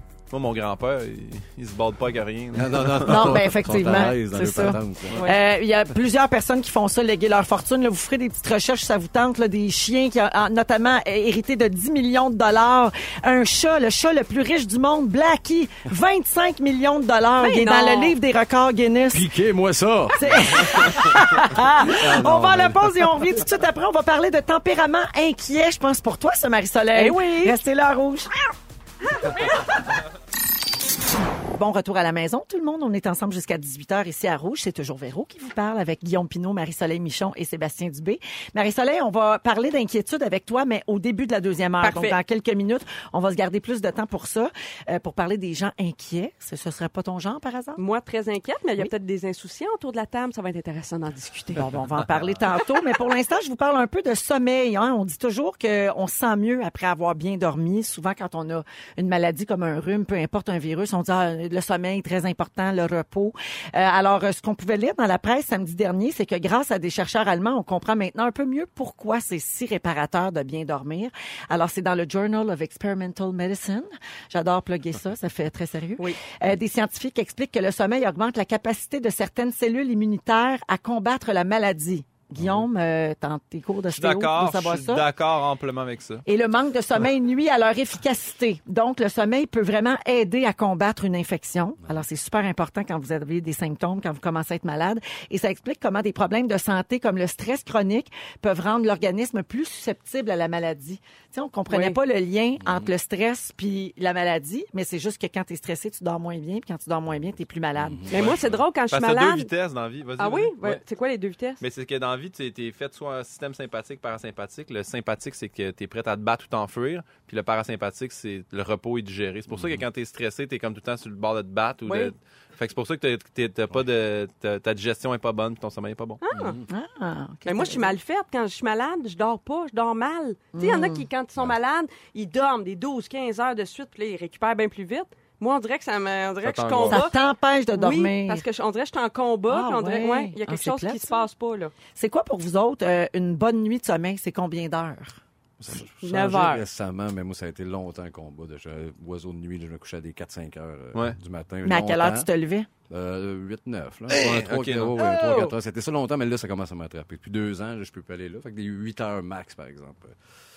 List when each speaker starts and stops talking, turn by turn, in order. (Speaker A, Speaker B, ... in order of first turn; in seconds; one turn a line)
Speaker A: 0.3-3.4
Speaker B: 2.5-5.2
Speaker C: 3.0-19.3
Speaker D: 17.4-18.2
Speaker B: 19.1-23.4
Speaker C: 20.2-28.4
Speaker D: 26.9-27.6
Speaker D: 29.2-29.5
Speaker C: 31.6-47.8
Speaker D: 41.8-42.2
Speaker D: 47.8-51.7
Speaker C: 51.5-85.0
Speaker B: 82.4-82.6
Speaker A: 84.0-86.2
Speaker C: 86.2-108.1
Speaker D: 101.7-102.0
Speaker B: 102.6-102.9
Speaker B: 107.8-108.4
Speaker D: 108.1-109.5
Speaker A: 108.1-110.8
Speaker D: 110.2-111.6
Speaker A: 111.6-126.2
Speaker B: 119.5-119.8
Speaker D: 121.9-122.1
Speaker D: 126.2-126.6
Speaker B: 126.3-126.7
Speaker C: 126.7-128.0
Speaker D: 127.5-137.2
Speaker C: 130.5-131.1
Speaker A: 136.4-137.1
Speaker C: 136.9-138.4
Speaker D: 137.7-141.7
Speaker C: 139.5-141.3
Speaker C: 141.9-145.2
Speaker B: 145.6-152.3
Speaker D: 146.0-146.6
Speaker C: 151.6-152.7
Speaker B: 152.9-160.2
Speaker A: 154.1-155.0
Speaker D: 155.0-155.5